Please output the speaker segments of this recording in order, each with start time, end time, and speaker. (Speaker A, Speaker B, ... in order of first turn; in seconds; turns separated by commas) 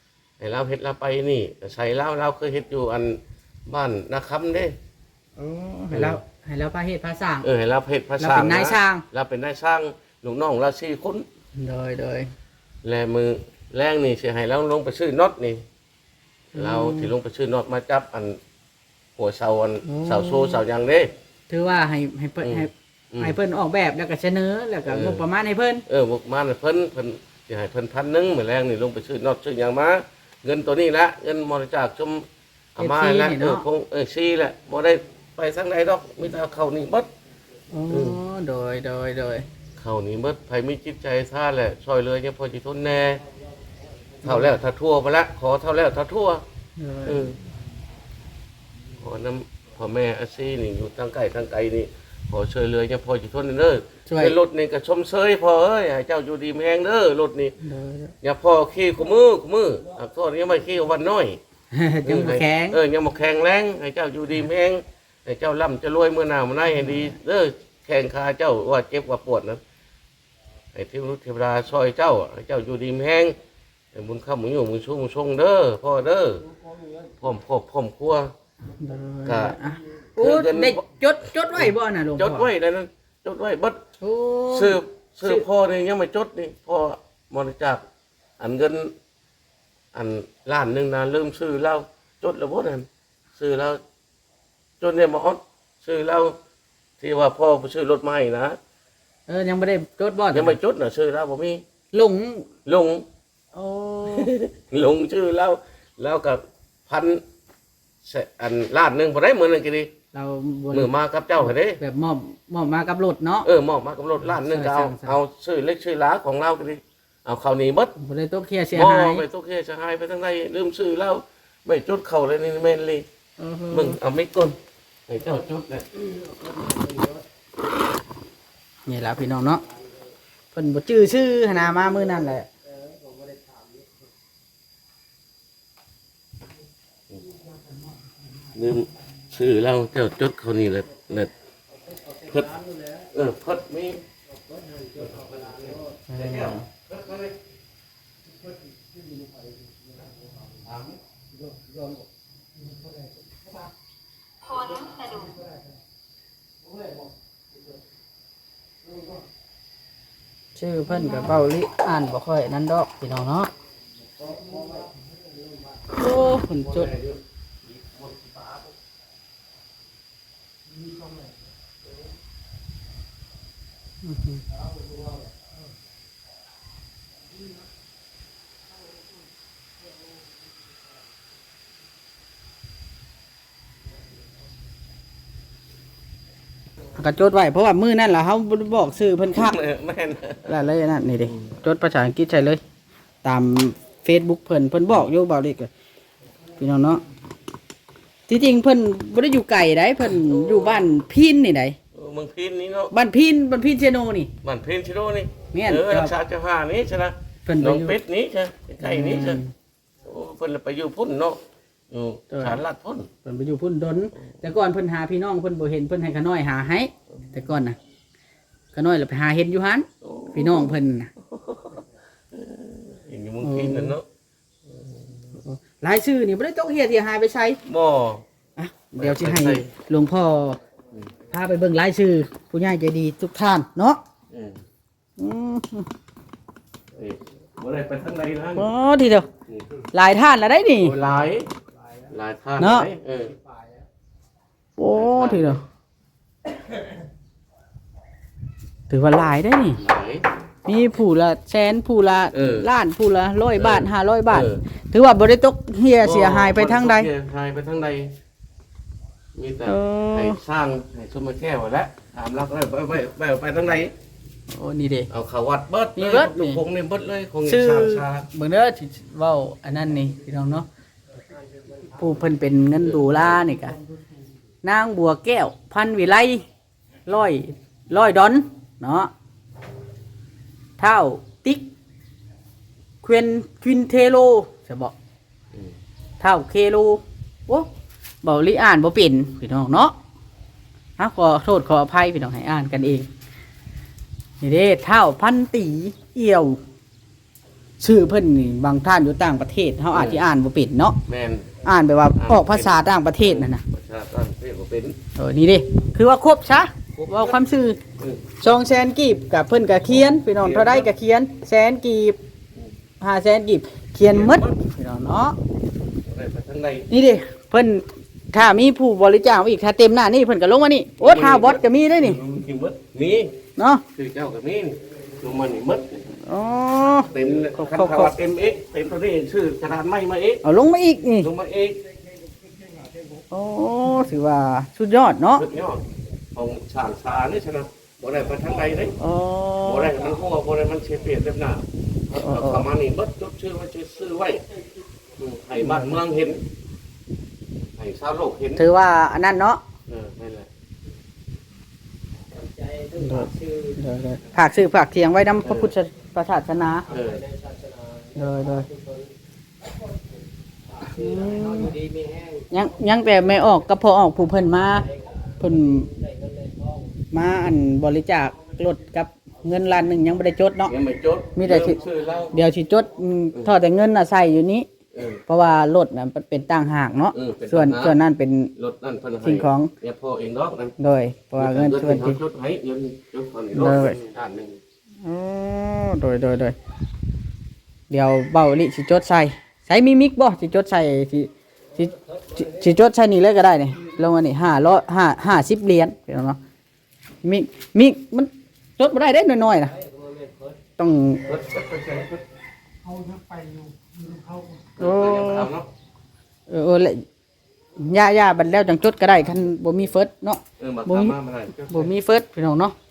Speaker A: 0.4-4.7, Speaker B: 5.4-7.5, Speaker A: 5.9-6.2, Speaker A: 7.4-11.2, Speaker B: 8.2-9.0, Speaker B: 11.6-12.3, Speaker A: 12.8-15.6, Speaker A: 16.5-18.4, Speaker B: 16.5-17.1, Speaker A: 19.2-21.1, Speaker B: 19.8-20.6, Speaker B: 21.5-25.8, Speaker A: 22.4-23.3, Speaker A: 24.9-25.2, Speaker A: 25.9-37.1, Speaker B: 32.8-33.6, Speaker B: 37.7-39.5, Speaker A: 37.9-38.2, Speaker A: 39.8-43.2, Speaker A: 44.2-46.4, Speaker B: 46.8-47.3, Speaker A: 47.0-47.4, Speaker A: 49.0-57.6, Speaker B: 54.1-54.4, Speaker B: 57.6-58.1, Speaker A: 58.2-61.4, Speaker B: 61.7-62.8, Speaker A: 62.0-69.6, Speaker B: 66.7-67.1, Speaker A: 70.7-73.3, Speaker A: 73.9-76.5, Speaker C: 76.7-77.1, Speaker A: 77.2-78.3, Speaker B: 78.8-82.5, Speaker A: 79.2-79.5, Speaker A: 80.2-80.8, Speaker A: 81.5-83.8, Speaker B: 84.0-85.4, Speaker A: 84.5-87.8, Speaker A: 88.4-88.9, Speaker A: 89.9-93.8, Speaker A: 94.8-96.3, Speaker A: 97.0-98.6, Speaker B: 99.3-100.6, Speaker A: 100.3-101.6, Speaker B: 101.9-102.5, Speaker A: 102.7-103.0, Speaker B: 103.5-104.3, Speaker A: 104.1-107.2, Speaker A: 108.0-109.9, Speaker B: 110.1-113.5, Speaker A: 110.7-111.8, Speaker A: 113.4-117.9, Speaker B: 114.2-115.2, Speaker B: 118.0-119.2, Speaker A: 118.7-123.0, Speaker B: 123.4-124.0, Speaker A: 123.7-124.5, Speaker A: 125.1-125.9, Speaker B: 128.9-129.6, Speaker B: 130.5-132.5, Speaker A: 138.5-141.3, Speaker A: 142.3-144.0, Speaker A: 145.0-147.3, Speaker B: 146.1-146.7, Speaker A: 150.6-151.0, Speaker B: 160.5-163.5, Speaker B: 165.9-166.9, Speaker A: 166.6-168.7, Speaker B: 174.0-174.4, Speaker B: 186.9-189.6, Speaker A: 189.3-190.6, Speaker B: 190.4-192.6, Speaker B: 193.2-195.7, Speaker B: 196.6-197.0, Speaker B: 198.3-201.8, Speaker A: 200.1-200.9, Speaker A: 201.9-202.9, Speaker B: 202.9-204.3, Speaker A: 204.4-209.4, Speaker B: 205.5-206.1, Speaker B: 207.4-208.0, Speaker B: 208.8-209.5, Speaker A: 210.0-211.4, Speaker A: 211.9-213.1, Speaker B: 212.3-212.6, Speaker B: 213.2-217.8, Speaker B: 218.7-221.1, Speaker A: 220.0-221.8, Speaker A: 222.3-224.0, Speaker B: 223.4-223.9, Speaker B: 225.4-227.6, Speaker A: 227.7-228.2, Speaker B: 228.6-230.6, Speaker A: 229.0-229.7, Speaker B: 231.3-234.0, Speaker A: 234.3-234.6, Speaker B: 235.2-235.9, Speaker A: 236.9-238.7, Speaker B: 238.6-239.3, Speaker A: 239.5-239.8, Speaker B: 239.9-240.9, Speaker A: 240.8-241.5, Speaker A: 242.1-243.4, Speaker B: 242.6-242.9, Speaker B: 244.8-245.6, Speaker A: 244.9-245.6, Speaker B: 248.9-249.8, Speaker A: 249.8-250.2, Speaker B: 250.6-257.1, Speaker A: 252.3-252.7, Speaker A: 253.6-254.6, Speaker A: 256.0-258.1, Speaker A: 259.4-263.9, Speaker B: 259.6-260.4, Speaker B: 264.5-265.1, Speaker A: 265.1-268.3, Speaker B: 265.9-266.6, Speaker B: 267.4-270.7, Speaker B: 271.9-273.8, Speaker A: 272.8-273.4, Speaker B: 274.6-276.4, Speaker B: 277.1-279.1, Speaker B: 280.8-281.6, Speaker B: 283.0-284.9, Speaker B: 286.2-287.7, Speaker B: 288.2-289.9, Speaker B: 291.0-293.1, Speaker B: 294.4-296.6, Speaker B: 297.8-301.0, Speaker A: 299.9-300.2, Speaker A: 301.1-301.5, Speaker B: 301.6-303.6, Speaker A: 302.1-305.0, Speaker B: 305.1-307.8, Speaker A: 306.9-307.4, Speaker A: 308.0-308.2, Speaker B: 308.4-312.2, Speaker A: 310.4-310.8, Speaker B: 313.0-315.4, Speaker A: 314.1-314.6, Speaker A: 316.1-316.9, Speaker B: 316.9-322.2, Speaker A: 321.0-323.4, Speaker B: 323.6-323.8, Speaker A: 323.9-326.0, Speaker B: 326.2-328.1, Speaker A: 327.0-330.4, Speaker B: 330.4-331.3, Speaker A: 331.2-331.8, Speaker B: 333.3-335.4, Speaker A: 335.4-335.8, Speaker A: 336.3-339.0, Speaker B: 339.0-339.9, Speaker A: 339.6-344.4, Speaker B: 342.1-342.7, Speaker A: 345.2-346.4, Speaker B: 345.6-346.0, Speaker A: 347.8-348.6, Speaker B: 348.6-349.6, Speaker A: 349.9-350.5, Speaker C: 352.6-353.7, Speaker B: 352.9-356.9, Speaker A: 355.4-355.7, Speaker A: 356.9-357.2, Speaker C: 357.3-357.7, Speaker B: 358.1-358.7, Speaker C: 360.8-362.4, Speaker B: 360.9-361.8, Speaker B: 362.5-364.9, Speaker B: 365.4-365.9, Speaker B: 367.1-370.7, Speaker A: 370.7-372.3, Speaker B: 371.4-371.8, Speaker B: 372.3-374.7, Speaker A: 374.9-375.2, Speaker B: 375.3-378.5, Speaker A: 377.1-378.0, Speaker A: 378.6-380.7, Speaker B: 379.2-379.7, Speaker B: 380.8-382.2, Speaker A: 381.4-384.6, Speaker B: 383.5-384.0, Speaker B: 385.0-386.6, Speaker B: 387.9-396.4, Speaker B: 397.2-399.7, Speaker C: 400.0-400.4, Speaker B: 400.8-401.3, Speaker A: 401.2-402.2, Speaker C: 403.1-403.5, Speaker A: 404.8-405.7, Speaker B: 404.8-405.5, Speaker B: 406.5-407.0, Speaker B: 407.8-412.8, Speaker A: 410.6-411.9